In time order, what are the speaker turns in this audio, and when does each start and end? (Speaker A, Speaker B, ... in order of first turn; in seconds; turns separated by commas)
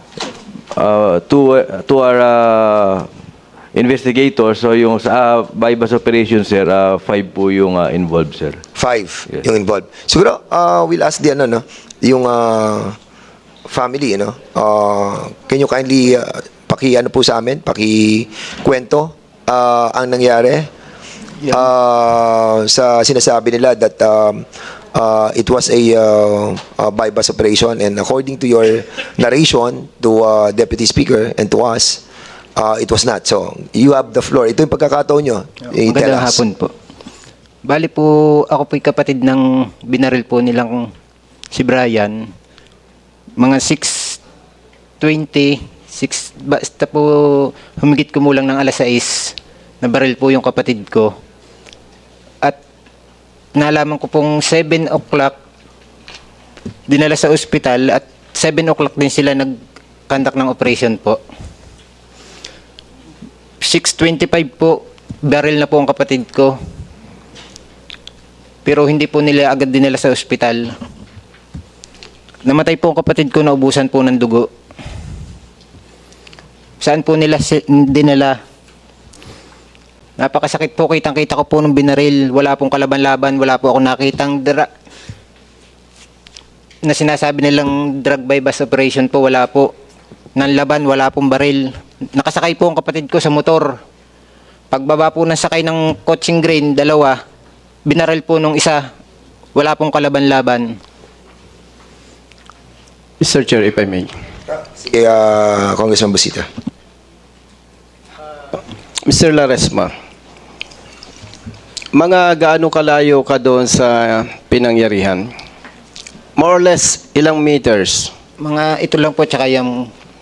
Speaker A: 0.7-3.1, Speaker A: 3.7-8.6, Speaker B: 8.8-13.0, Speaker B: 13.7-20.7, Speaker B: 21.5-32.0, Speaker B: 32.5-36.4, Speaker C: 35.8-36.7, Speaker C: 37.6-40.9, Speaker C: 41.5-42.3, Speaker C: 43.4-44.2, Speaker C: 45.0-51.1, Speaker C: 53.5-55.3, Speaker C: 56.9-59.6, Speaker C: 60.1-61.2, Speaker C: 63.6-66.6, Speaker C: 68.6-70.7, Speaker C: 72.4-74.5, Speaker C: 76.8-78.4, Speaker C: 80.2-84.7, Speaker C: 86.8-89.7, Speaker C: 90.3-93.8, Speaker C: 94.7-97.2, Speaker C: 97.8-98.9, Speaker C: 99.5-100.8, Speaker D: 103.2-104.1, Speaker B: 104.5-106.5, Speaker D: 109.0-109.9, Speaker D: 111.9-115.3, Speaker D: 116.4-118.1, Speaker C: 118.4-119.9